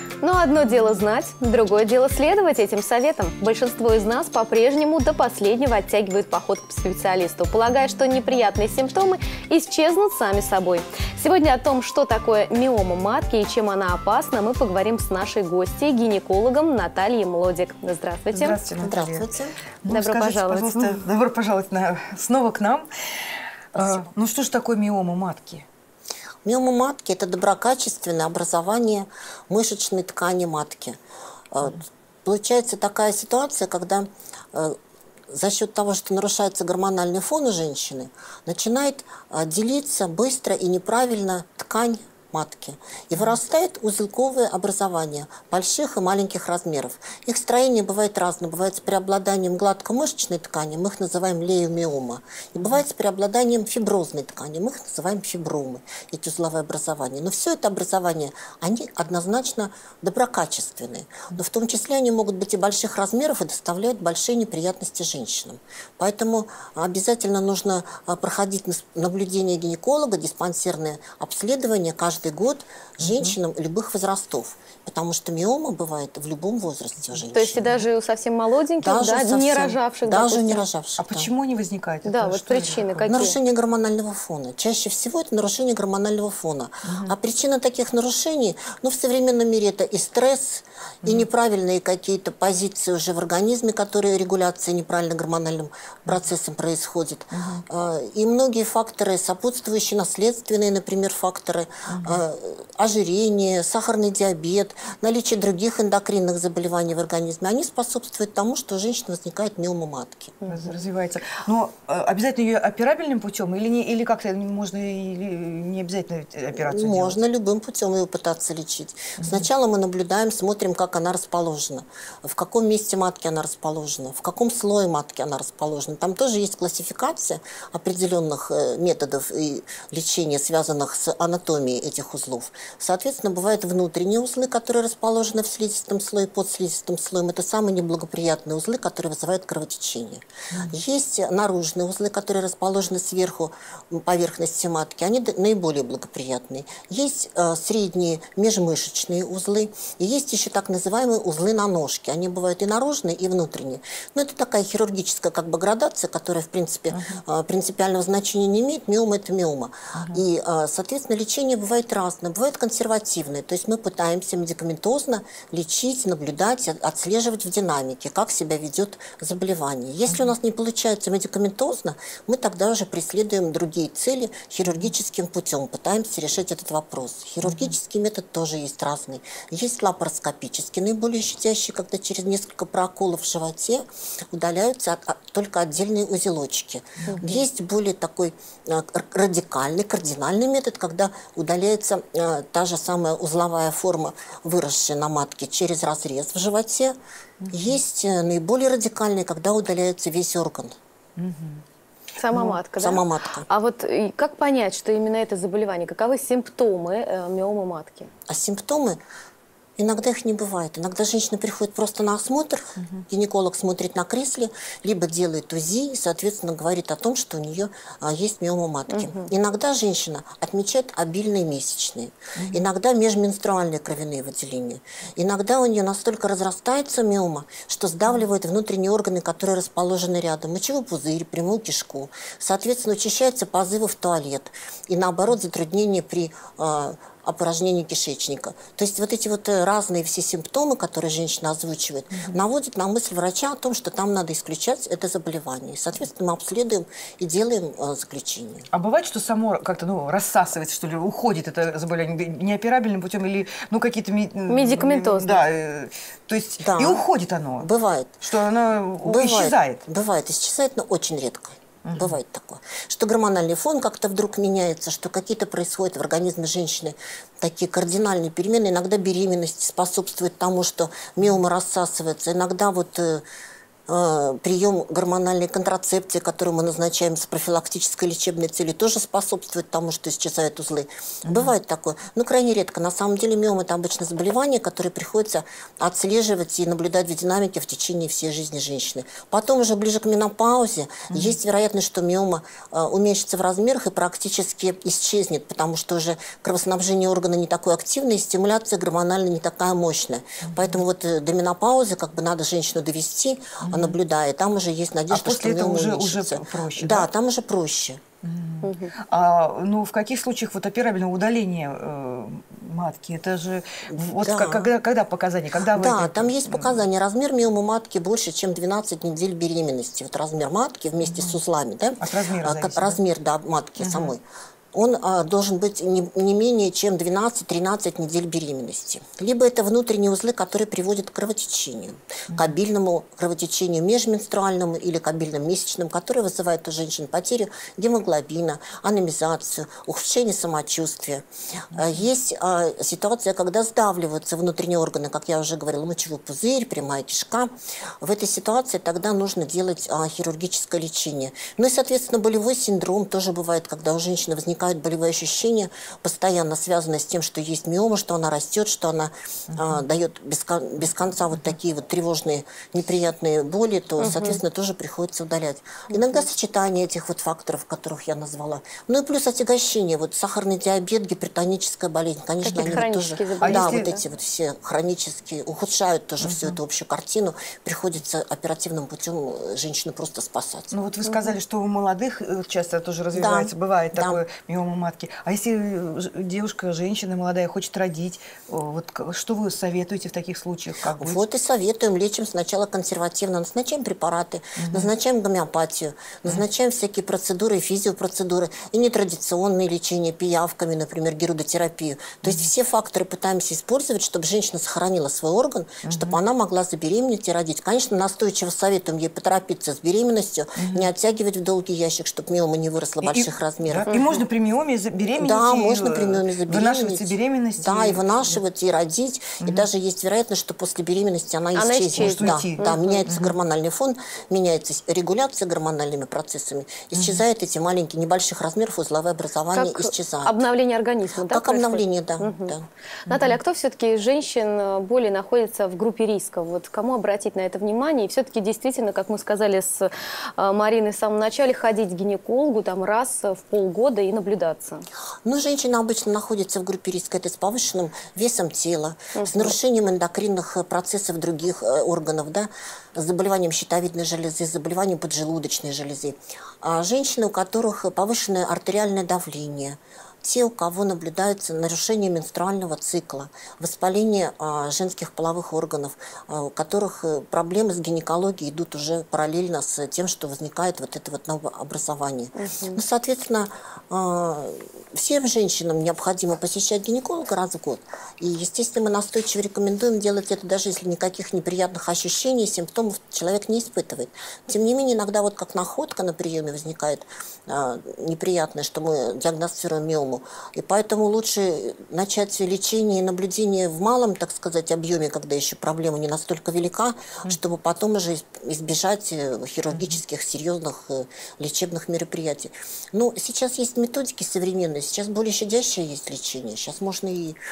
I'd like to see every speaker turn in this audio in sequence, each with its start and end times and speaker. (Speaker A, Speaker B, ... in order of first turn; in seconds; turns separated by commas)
Speaker A: 0.2-18.6, Speaker B: 18.3-19.2, Speaker C: 18.8-19.5, Speaker B: 19.8-22.9, Speaker A: 19.9-20.9, Speaker B: 23.7-25.6, Speaker C: 26.4-31.0, Speaker C: 31.5-34.8, Speaker C: 35.3-77.8, Speaker B: 73.0-73.3, Speaker A: 77.3-80.6, Speaker C: 78.8-81.3, Speaker B: 81.0-83.2, Speaker A: 82.0-83.4, Speaker C: 83.1-110.4, Speaker B: 86.9-87.1, Speaker B: 97.3-97.6, Speaker B: 101.9-102.2, Speaker B: 110.5-117.2, Speaker C: 116.6-196.9, Speaker B: 156.9-157.2, Speaker B: 159.9-160.2, Speaker B: 187.0-187.3, Speaker B: 197.4-197.8, Speaker C: 197.5-200.7, Speaker B: 201.2-201.6, Speaker A: 202.2-208.1, Speaker C: 202.3-203.5, Speaker C: 208.3-209.0, Speaker C: 209.8-248.7, Speaker A: 218.9-219.3, Speaker B: 222.3-222.7, Speaker B: 248.7-257.7, Speaker A: 254.5-255.4, Speaker C: 256.6-257.0, Speaker C: 257.6-258.2, Speaker B: 258.2-259.8, Speaker C: 259.0-273.2, Speaker B: 261.8-262.2, Speaker C: 273.9-308.0, Speaker B: 281.3-281.5, Speaker B: 291.1-291.4, Speaker B: 300.4-300.8, Speaker B: 303.6-303.9, Speaker B: 305.1-307.1, Speaker B: 308.2-316.8, Speaker A: 308.6-308.9, Speaker C: 313.9-314.7, Speaker C: 315.7-380.8, Speaker B: 321.1-321.3, Speaker B: 322.0-323.0, Speaker B: 323.8-324.1, Speaker B: 341.7-342.0, Speaker B: 359.5-359.8, Speaker A: 364.0-364.4, Speaker A: 372.4-374.0, Speaker B: 372.5-372.8, Speaker B: 373.4-373.9, Speaker B: 376.2-376.6, Speaker B: 380.7-391.2, Speaker C: 383.1-384.2, Speaker C: 391.0-413.9, Speaker B: 394.6-394.9, Speaker B: 405.8-406.2, Speaker B: 410.6-410.9, Speaker B: 413.0-418.4, Speaker A: 413.9-414.2, Speaker C: 415.2-430.4, Speaker B: 419.4-419.6, Speaker A: 421.5-423.0, Speaker B: 422.0-423.3, Speaker B: 426.9-427.2, Speaker A: 429.5-432.5, Speaker C: 431.3-432.7, Speaker B: 433.1-433.4, Speaker A: 433.1-444.9, Speaker C: 445.2-507.4, Speaker A: 449.1-449.5, Speaker A: 472.3-472.8, Speaker B: 499.7-500.0